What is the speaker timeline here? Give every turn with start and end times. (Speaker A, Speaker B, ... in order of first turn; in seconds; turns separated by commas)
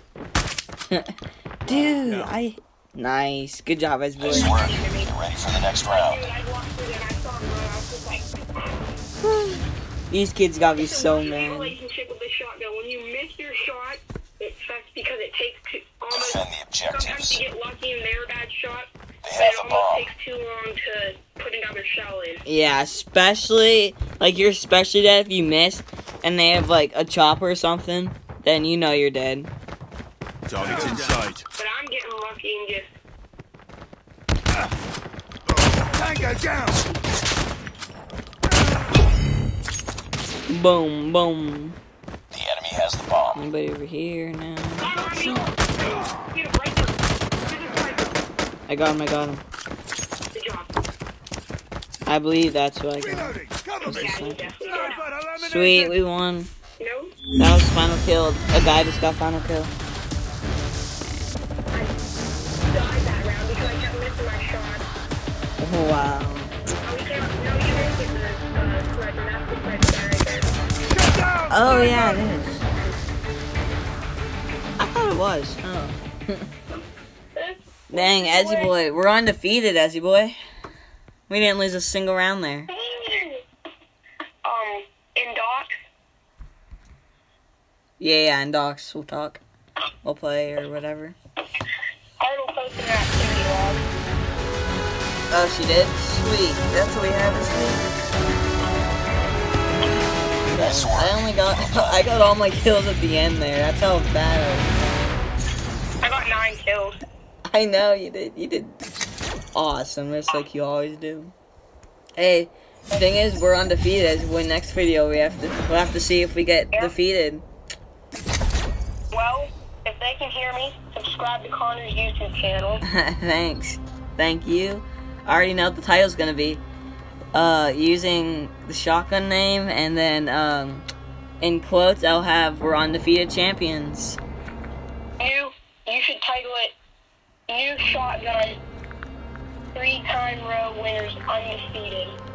Speaker A: 0.9-4.5, Speaker B: 1.7-2.3, Speaker C: 4.2-5.1, Speaker D: 4.2-6.2, Speaker C: 5.9-8.9, Speaker A: 9.2-11.8, Speaker C: 10.8-22.4, Speaker D: 16.1-17.4, Speaker D: 19.2-20.1, Speaker A: 22.5-29.5, Speaker B: 30.5-31.4, Speaker A: 30.6-31.1, Speaker C: 31.6-32.9, Speaker B: 35.8-36.8, Speaker A: 40.5-41.8, Speaker D: 42.3-43.4, Speaker A: 43.4-45.0, Speaker C: 44.8-46.9, Speaker C: 47.5-48.2, Speaker A: 48.7-49.4, Speaker C: 50.3-50.7, Speaker A: 52.0-54.5, Speaker B: 53.0-56.0, Speaker C: 53.9-55.1, Speaker A: 55.4-56.5, Speaker C: 56.8-57.2, Speaker A: 57.4-59.7, Speaker C: 62.7-64.8, Speaker A: 65.6-66.5, Speaker C: 66.8-70.5, Speaker B: 70.9-72.0, Speaker A: 71.5-72.7, Speaker A: 74.8-76.5, Speaker C: 77.4-78.7, Speaker A: 77.9-80.4, Speaker A: 81.3-82.7, Speaker C: 82.7-83.4, Speaker C: 84.5-85.8, Speaker A: 88.0-89.4, Speaker A: 90.0-91.2, Speaker C: 92.2-93.8, Speaker A: 95.3-97.8, Speaker A: 100.5-105.2, Speaker D: 100.6-102.0, Speaker C: 106.0-107.0, Speaker A: 107.5-108.8, Speaker A: 109.5-111.3, Speaker A: 112.2-117.5, Speaker C: 119.1-122.8, Speaker A: 122.8-126.6, Speaker A: 127.3-130.8, Speaker A: 131.4-134.2, Speaker C: 135.2-136.7, Speaker C: 137.5-138.6, Speaker C: 139.7-142.2